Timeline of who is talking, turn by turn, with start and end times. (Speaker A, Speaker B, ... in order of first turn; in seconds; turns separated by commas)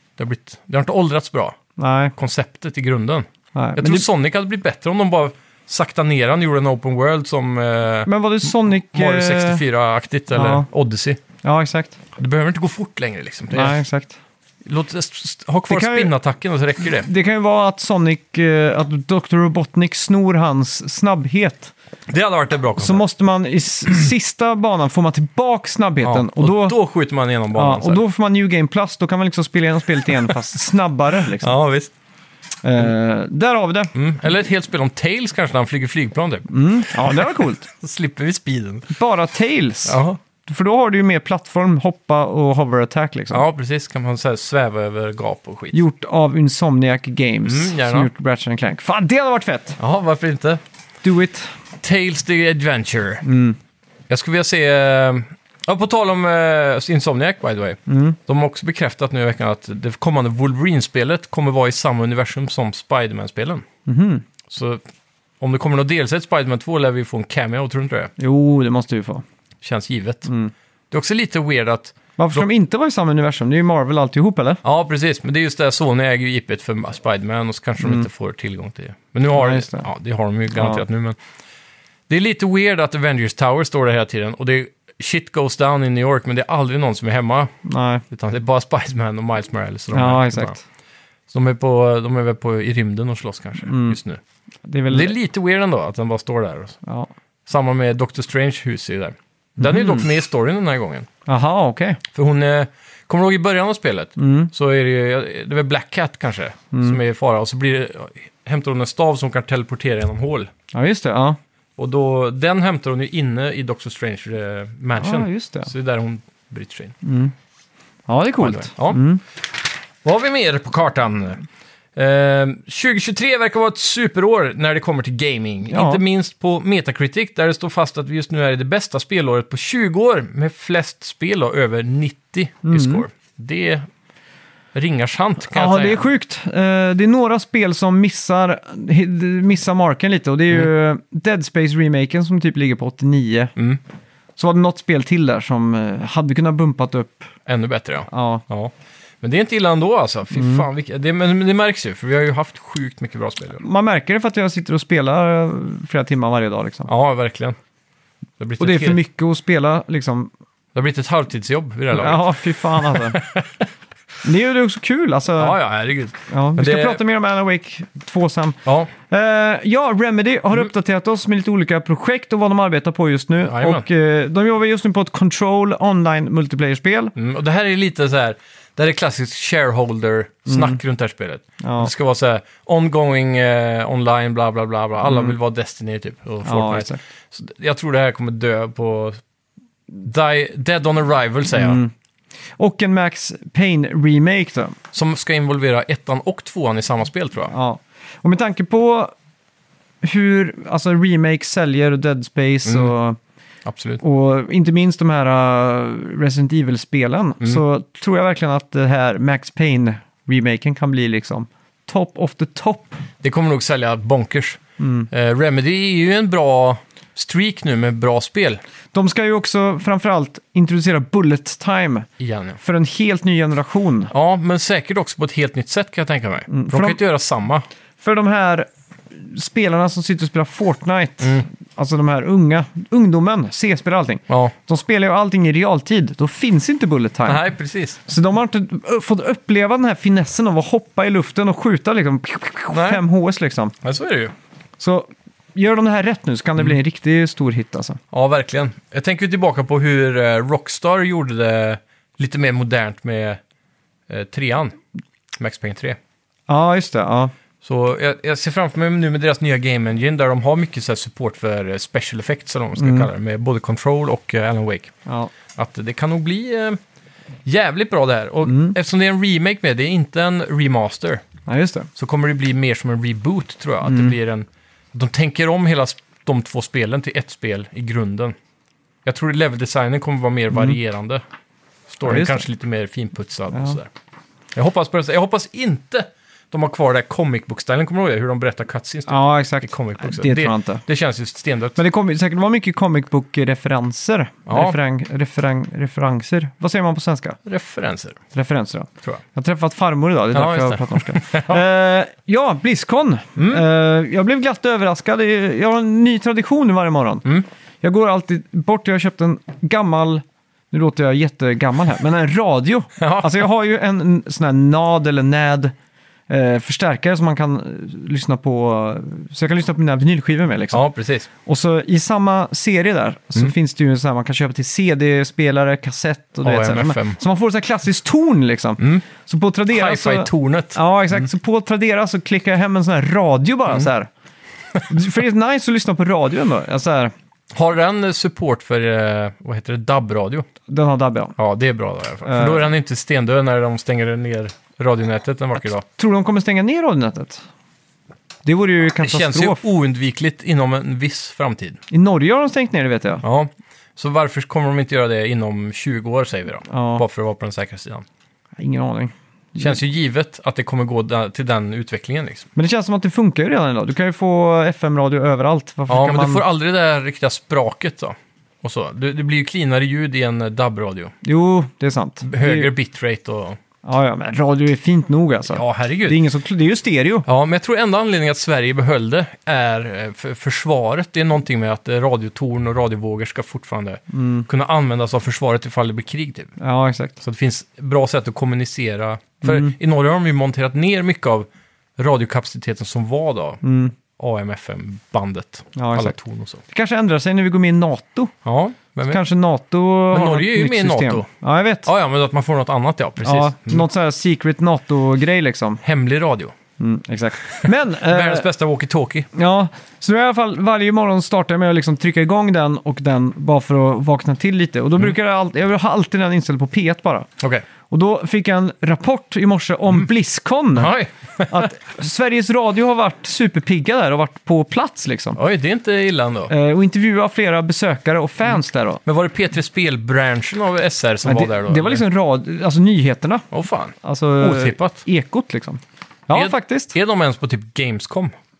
Speaker A: 0.2-1.6, Speaker B: 1.8-2.1, Speaker A: 2.1-11.2, Speaker B: 3.5-4.0, Speaker B: 8.1-9.6, Speaker B: 10.3-10.7, Speaker B: 11.4-12.0, Speaker A: 12.2-13.8, Speaker B: 13.5-14.2, Speaker A: 14.6-17.1, Speaker B: 15.7-16.1, Speaker B: 17.0-21.7, Speaker A: 22.1-23.0, Speaker B: 22.8-26.8, Speaker A: 26.0-28.0, Speaker B: 27.5-31.6, Speaker A: 31.4-31.9, Speaker B: 32.6-33.9, Speaker A: 33.9-38.9, Speaker B: 36.5-37.7, Speaker B: 38.9-43.4, Speaker A: 39.9-40.2, Speaker A: 43.3-45.8, Speaker B: 45.7-49.8, Speaker A: 47.4-48.1, Speaker A: 49.8-50.6, Speaker B: 51.0-51.5, Speaker A: 51.8-53.2, Speaker B: 53.2-53.6, Speaker A: 54.1-63.6, Speaker B: 57.9-58.2, Speaker B: 63.9-64.2, Speaker A: 64.5-64.8, Speaker A: 65.4-68.1, Speaker B: 68.2-69.2, Speaker A: 69.6-70.3, Speaker B: 70.3-70.5, Speaker A: 70.9-72.5, Speaker B: 72.2-74.6, Speaker A: 74.6-81.2, Speaker B: 77.8-78.1, Speaker B: 79.3-79.9, Speaker B: 80.5-80.8, Speaker A: 82.1-87.5, Speaker B: 87.7-88.0, Speaker A: 88.1-90.6, Speaker B: 89.9-90.6, Speaker A: 91.3-94.2, Speaker B: 93.7-94.0, Speaker B: 94.7-95.1, Speaker A: 94.9-96.8, Speaker B: 96.8-97.1, Speaker A: 97.5-101.1, Speaker B: 99.6-100.0, Speaker B: 101.3-102.0, Speaker A: 102.1-110.5, Speaker B: 104.2-104.5, Speaker B: 106.7-107.0, Speaker B: 110.7-111.4, Speaker A: 111.8-116.9, Speaker B: 115.0-115.7, Speaker B: 117.0-117.3, Speaker B: 118.1-119.2, Speaker A: 118.4-119.0, Speaker A: 120.0-121.4, Speaker A: 122.0-133.9, Speaker B: 125.7-126.0, Speaker B: 132.6-133.0, Speaker A: 134.7-136.1, Speaker B: 135.5-143.5, Speaker A: 143.6-143.8, Speaker B: 144.4-147.3, Speaker A: 147.4-153.6, Speaker B: 148.1-148.4, Speaker B: 150.3-150.7, Speaker B: 153.6-156.9, Speaker A: 156.9-157.6, Speaker A: 158.4-159.0, Speaker B: 158.6-160.3, Speaker A: 160.7-163.7, Speaker B: 161.9-163.2, Speaker B: 164.2-165.6, Speaker A: 165.4-167.0, Speaker B: 166.3-177.1, Speaker A: 168.7-168.9, Speaker A: 173.4-173.8, Speaker A: 177.2-189.2, Speaker B: 180.5-180.8, Speaker B: 181.6-181.9, Speaker B: 185.0-185.3, Speaker B: 186.4-187.0, Speaker A: 190.0-191.8, Speaker B: 191.5-191.9, Speaker B: 192.6-194.8, Speaker A: 194.9-197.5, Speaker B: 197.5-199.1, Speaker B: 200.0-203.2, Speaker A: 202.7-202.9, Speaker A: 203.6-204.0, Speaker B: 204.0-213.0, Speaker A: 213.2-214.6, Speaker B: 214.8-215.1, Speaker A: 215.1-218.6, Speaker B: 218.9-222.1, Speaker A: 222.2-222.6, Speaker B: 222.6-224.1, Speaker A: 224.1-227.6, Speaker B: 226.5-227.0, Speaker B: 228.0-237.4, Speaker A: 237.2-238.0, Speaker B: 238.1-243.7, Speaker A: 242.7-243.0, Speaker A: 243.8-244.3, Speaker B: 244.8-248.0, Speaker A: 248.1-253.4, Speaker A: 254.1-254.8, Speaker A: 255.4-256.0, Speaker B: 256.5-257.3, Speaker A: 257.6-264.9, Speaker B: 262.8-263.1, Speaker B: 265.1-265.3, Speaker A: 265.5-266.8, Speaker A: 267.4-271.2, Speaker B: 268.4-268.8, Speaker B: 271.5-271.9, Speaker A: 271.9-278.4, Speaker B: 273.8-274.1, Speaker A: 279.0-281.2, Speaker A: 281.9-283.9, Speaker B: 282.0-282.4, Speaker B: 283.5-283.8, Speaker A: 284.5-291.8, Speaker B: 289.1-290.8, Speaker B: 291.8-297.4, Speaker A: 294.5-294.8, Speaker A: 297.4-298.2, Speaker B: 298.3-307.3, Speaker A: 300.3-301.6, Speaker A: 303.4-303.6, Speaker B: 307.8-315.7, Speaker A: 313.0-313.4, Speaker B: 316.3-320.8, Speaker A: 320.7-321.3, Speaker B: 321.4-334.1, Speaker A: 326.4-327.2, Speaker A: 328.8-329.0, Speaker A: 329.7-331.2, Speaker B: 334.9-337.1, Speaker A: 337.5-340.5, Speaker B: 340.7-341.4, Speaker A: 341.4-345.8, Speaker B: 342.2-342.7, Speaker B: 345.9-347.4, Speaker B: 348.4-349.6, Speaker A: 349.0-351.8, Speaker B: 351.9-353.2, Speaker A: 353.2-358.1, Speaker B: 356.7-357.0, Speaker B: 358.6-359.8, Speaker A: 359.6-362.5, Speaker B: 362.6-366.4, Speaker A: 365.9-371.1, Speaker B: 371.2-372.7, Speaker A: 372.2-373.6, Speaker B: 373.8-377.3, Speaker A: 375.5-376.2, Speaker A: 377.2-386.5, Speaker B: 384.1-384.5, Speaker B: 386.6-387.1, Speaker A: 387.2-393.6, Speaker B: 389.4-389.7, Speaker B: 393.6-393.9, Speaker A: 394.1-396.6, Speaker B: 395.8-396.1, Speaker B: 396.7-398.3, Speaker A: 398.4-399.2, Speaker B: 399.1-401.9, Speaker A: 400.1-401.3, Speaker A: 401.8-403.9, Speaker B: 403.2-405.8, Speaker A: 405.8-406.5, Speaker B: 406.8-408.5, Speaker A: 407.6-409.3, Speaker B: 409.3-417.3, Speaker A: 417.4-417.6, Speaker B: 417.9-420.9, Speaker A: 420.8-421.7, Speaker B: 421.5-425.4, Speaker A: 425.4-426.5, Speaker B: 426.5-429.0, Speaker A: 429.0-432.0, Speaker B: 431.2-433.4, Speaker A: 433.5-435.0, Speaker B: 434.0-436.9, Speaker A: 436.3-438.3